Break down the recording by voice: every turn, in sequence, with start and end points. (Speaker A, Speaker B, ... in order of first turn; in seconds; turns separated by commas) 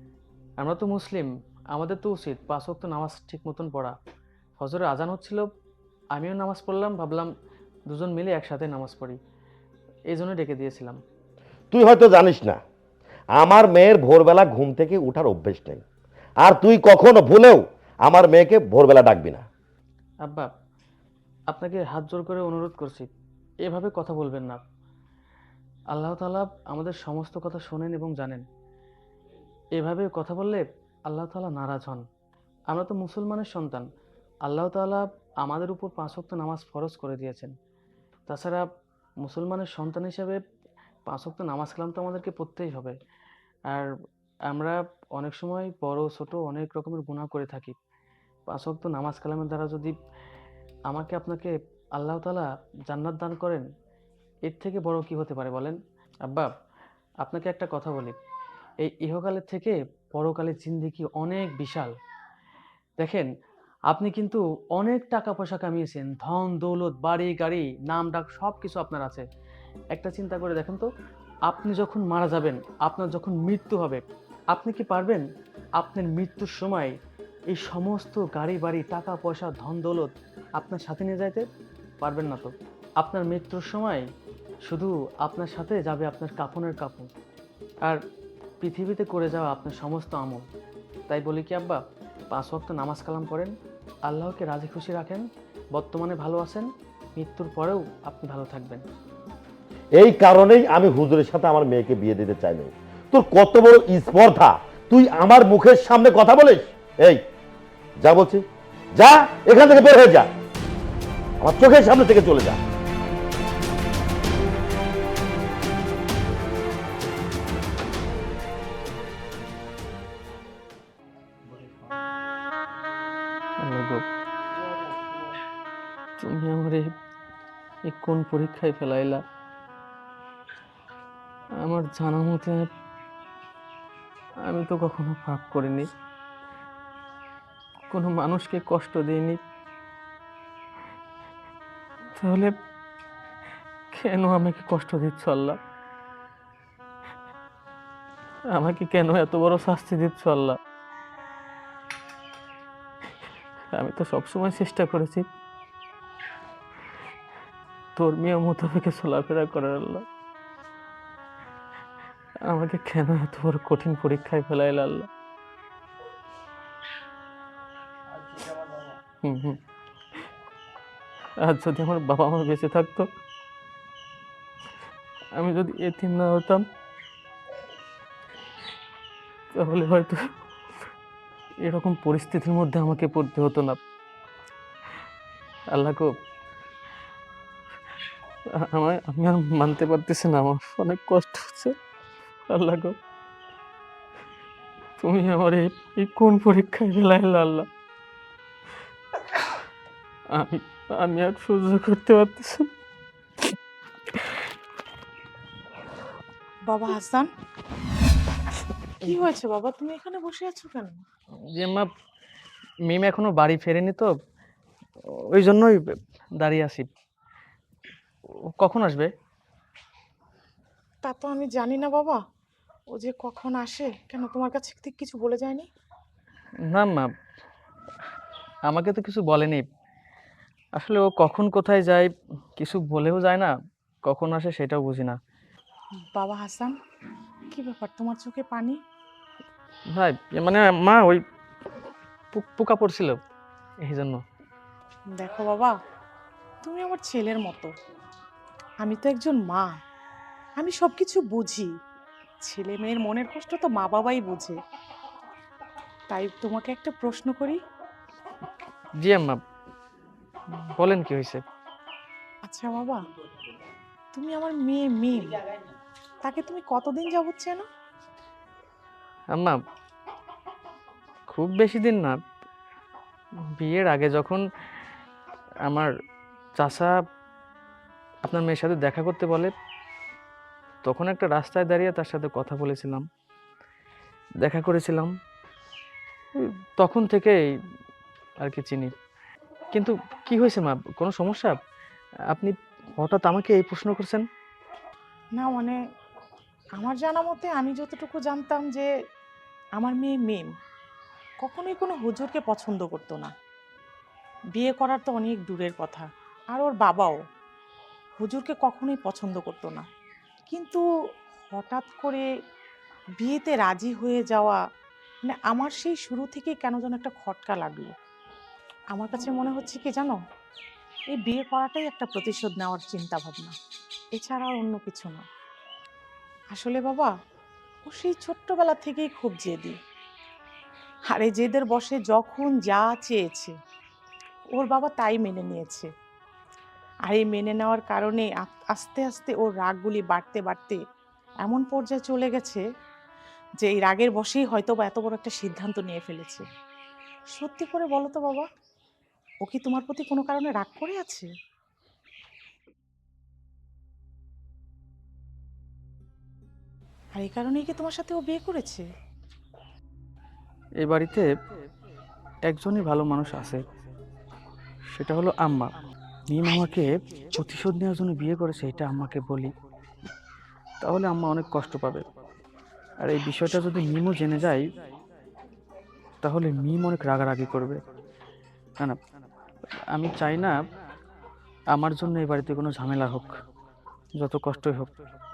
Speaker A: 0.6-4.0, Speaker A: 4.6-5.5, Speaker A: 6.1-7.3, Speaker A: 7.9-9.2, Speaker A: 10.1-11.0, Speaker B: 11.7-12.6, Speaker B: 13.4-15.8, Speaker B: 16.4-19.5, Speaker A: 20.2-20.5, Speaker A: 21.5-23.1, Speaker A: 23.6-24.6, Speaker A: 25.9-28.5, Speaker A: 29.8-32.1, Speaker A: 32.7-33.9, Speaker A: 34.5-37.5, Speaker A: 38.3-38.6, Speaker A: 39.2-40.4, Speaker A: 41.1-43.0, Speaker A: 44.5-47.8, Speaker A: 48.5-49.9, Speaker A: 50.9-53.7, Speaker A: 54.5-56.5, Speaker A: 57.2-58.2, Speaker A: 58.8-61.9, Speaker A: 63.0-63.3, Speaker A: 63.9-69.2, Speaker A: 69.9-70.9, Speaker A: 71.5-75.3, Speaker A: 75.8-77.0, Speaker A: 77.5-81.5, Speaker A: 82.0-84.1, Speaker A: 84.7-87.1, Speaker A: 88.6-90.5, Speaker A: 91.1-93.5, Speaker A: 94.1-98.8, Speaker B: 100.0-107.2, Speaker B: 108.0-108.4, Speaker B: 109.0-110.3, Speaker B: 111.4-112.6, Speaker A: 123.6-124.0, Speaker A: 126.2-126.9, Speaker A: 127.9-129.2, Speaker A: 131.6-132.7, Speaker A: 134.5-135.9, Speaker A: 137.9-139.4, Speaker A: 142.2-142.5, Speaker A: 143.9-145.6, Speaker A: 148.5-150.6, Speaker A: 153.7-155.3, Speaker A: 158.0-160.1, Speaker A: 162.5-165.1, Speaker A: 169.2-169.6, Speaker A: 171.4-173.1, Speaker A: 175.4-176.7, Speaker A: 179.5-180.2, Speaker A: 181.6-183.8, Speaker A: 185.7-186.1, Speaker A: 188.7-191.8, Speaker A: 192.5-192.9, Speaker A: 195.0-197.7, Speaker A: 200.3-202.7, Speaker C: 206.7-207.3, Speaker C: 209.0-211.0, Speaker A: 211.6-211.9, Speaker A: 212.9-214.1, Speaker A: 215.1-216.9, Speaker A: 218.6-219.1, Speaker C: 221.0-222.2, Speaker C: 222.9-225.7, Speaker A: 226.7-227.1, Speaker A: 228.7-229.7, Speaker A: 230.8-233.5, Speaker A: 234.1-235.2, Speaker C: 236.0-236.8, Speaker C: 237.5-238.8, Speaker A: 239.9-241.2, Speaker A: 242.3-243.2, Speaker A: 243.8-244.2, Speaker C: 245.1-245.8, Speaker C: 246.6-247.7, Speaker C: 248.8-249.7, Speaker C: 250.6-251.7, Speaker C: 252.4-254.6, Speaker C: 256.1-257.6, Speaker A: 259.0-259.4, Speaker A: 260.5-261.4, Speaker C: 262.5-263.0, Speaker C: 264.1-265.4, Speaker C: 266.2-267.6, Speaker A: 269.3-269.6, Speaker A: 271.3-272.2, Speaker A: 273.6-274.4, Speaker A: 275.7-275.9, Speaker A: 276.6-276.9, Speaker A: 278.2-279.5, Speaker A: 280.9-283.1, Speaker A: 284.4-285.1, Speaker A: 286.4-287.4, Speaker A: 288.4-288.9, Speaker A: 289.7-291.6, Speaker A: 292.3-294.2, Speaker C: 295.4-295.8, Speaker C: 296.8-298.9, Speaker C: 299.8-300.5, Speaker C: 301.4-303.3, Speaker C: 304.5-307.2, Speaker C: 308.2-309.9, Speaker C: 310.5-310.9, Speaker C: 311.5-312.3, Speaker C: 313.2-314.6, Speaker C: 315.3-317.9, Speaker C: 318.9-320.2, Speaker C: 321.1-323.6, Speaker C: 324.1-325.2, Speaker C: 326.5-327.1, Speaker C: 327.9-329.8, Speaker C: 331.1-333.5, Speaker C: 334.5-335.9, Speaker C: 337.1-340.8, Speaker C: 341.4-342.6, Speaker C: 343.6-346.5, Speaker C: 347.3-348.5, Speaker C: 349.4-351.3, Speaker C: 357.2-358.9, Speaker A: 360.8-361.3, Speaker A: 362.5-363.6, Speaker A: 364.9-365.7, Speaker A: 366.3-369.5, Speaker A: 370.8-372.1, Speaker A: 373.0-374.6, Speaker A: 376.2-377.8, Speaker A: 379.9-380.6, Speaker A: 381.7-383.4, Speaker A: 384.2-384.9